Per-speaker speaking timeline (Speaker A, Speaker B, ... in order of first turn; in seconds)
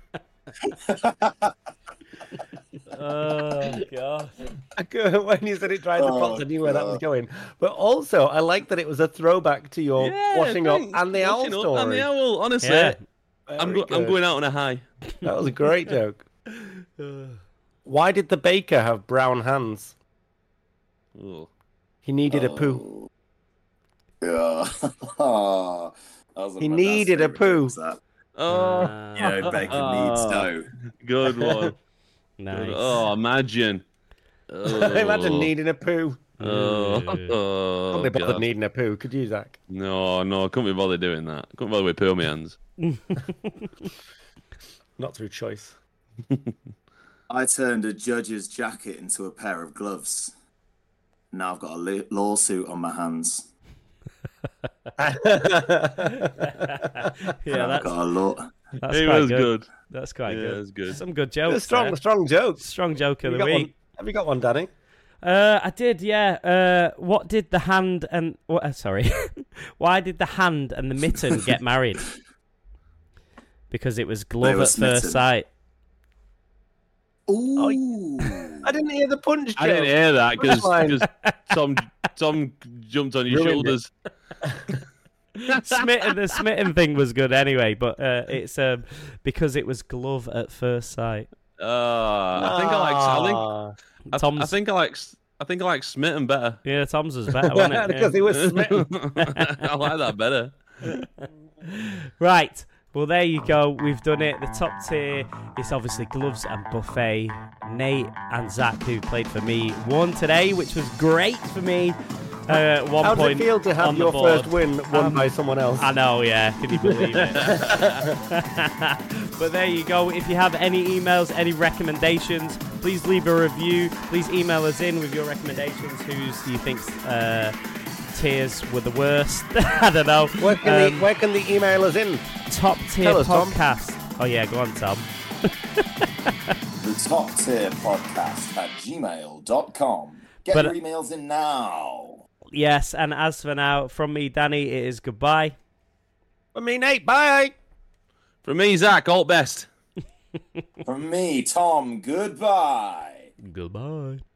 Speaker A: 0.6-1.5, 6.0-7.0, 22.3-23.1, 24.2-28.0, 29.1-30.7, 47.3-50.3, 51.3-53.5, 57.5-58.5, 74.4-75.2, 77.3-78.7, 136.8-142.2, 150.8-153.3
Speaker B: 2.9-4.3, 12.6-13.0, 16.6-17.4, 28.5-29.7, 32.4-33.0, 36.4-37.4, 42.8-43.7, 56.0-58.0, 58.8-62.0, 62.6-63.7, 65.2-72.1, 73.7-75.5, 85.4-91.3, 94.1-94.5, 96.6-98.2, 101.7-115.3, 115.8-127.5, 128.1-131.1, 132.5-136.3, 140.5-140.8, 142.5-145.6, 153.4-154.2
Speaker C: 4.8-12.1, 13.5-14.2, 15.2-16.2, 17.9-19.9, 22.0-22.8, 26.6-27.8, 31.3-31.7, 34.6-36.3, 37.9-39.6, 45.0-45.7, 55.0-57.0, 61.5-62.6, 63.2-64.7, 77.5-77.8, 78.5-81.0, 83.3-83.8, 84.4-84.8, 92.3-93.7, 97.4-99.3, 113.0-115.9, 116.8-118.2, 130.4-132.3, 133.0-133.6, 146.5-147.5
Speaker D: 10.0-13.0, 13.6-14.8, 21.1-21.5, 28.4-31.8, 32.5-33.8, 34.5-35.5, 36.4-38.4, 39.7-42.6, 58.9-59.7, 60.3-61.0, 79.6-83.9, 91.6-93.5, 94.1-96.6, 98.3-100.6, 117.4-117.9, 148.4-149.7